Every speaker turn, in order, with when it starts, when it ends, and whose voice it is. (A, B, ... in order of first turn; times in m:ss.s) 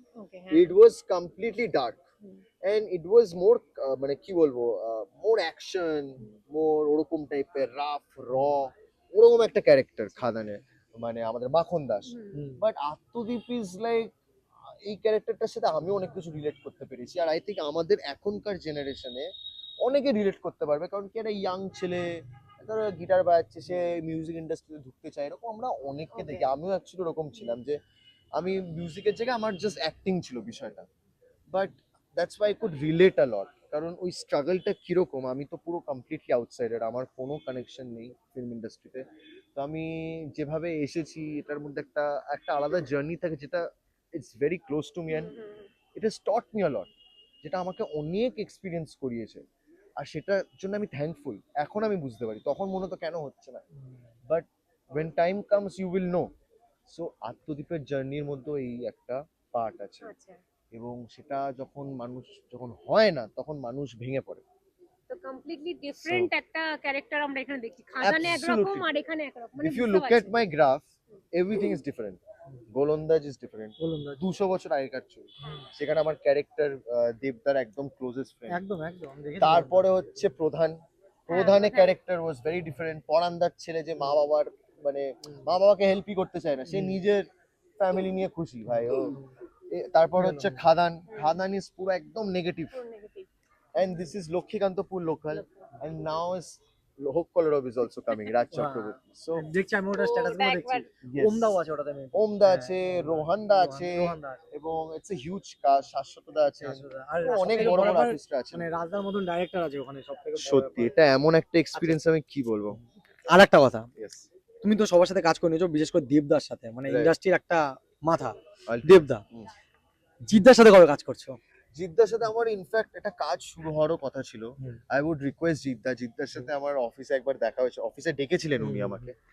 0:00.2-0:00.7 A
0:00.5-0:02.0 B
0:02.6-0:14.1 B
0:12.1-0:12.4 A
0:12.3-0:12.6 C
0:14.7-0:19.3 B
0:19.8-0:27.8 B
0:26.1-0:26.5 A
0:28.4-0:30.9 B
0:31.5-0:39.0 B
0:39.6-0:45.4 B
0:45.1-0:45.7 A
0:46.0-0:46.9 B
0:47.4-0:49.4 B
0:50.0-0:53.6 B
0:54.3-0:56.3 B
0:56.9-1:00.1 B
1:00.0-1:00.4 A
1:00.7-1:04.4 B
1:05.1-1:10.3 A
1:06.0-1:06.3 B
1:08.0-1:08.9 B
1:09.6-1:18.6 B
1:13.8-1:14.2 C
1:18.5-1:19.9 C
1:19.4-1:27.3 B
1:21.3-1:21.9 A
1:26.7-1:27.0 C
1:27.8-1:29.2 B
1:28.7-1:29.3 C
1:29.7-1:32.8 B
1:30.2-1:30.6 C
1:32.7-1:33.3 A
1:33.8-1:39.5 B
1:35.3-1:35.7 A
1:38.5-1:44.4 C
1:39.9-1:40.9 A
1:41.0-1:41.6 B
1:42.1-1:48.7 B
1:46.6-1:50.9 C
1:50.4-1:52.8 B
1:53.3-1:53.9 C
1:54.0-1:54.3 B
1:54.6-1:58.4 C
1:56.9-1:57.1 B
1:58.7-1:59.5 B
1:58.9-1:59.2 C
2:00.3-2:01.4 C
2:01.7-2:09.1 B
2:08.6-2:09.1 C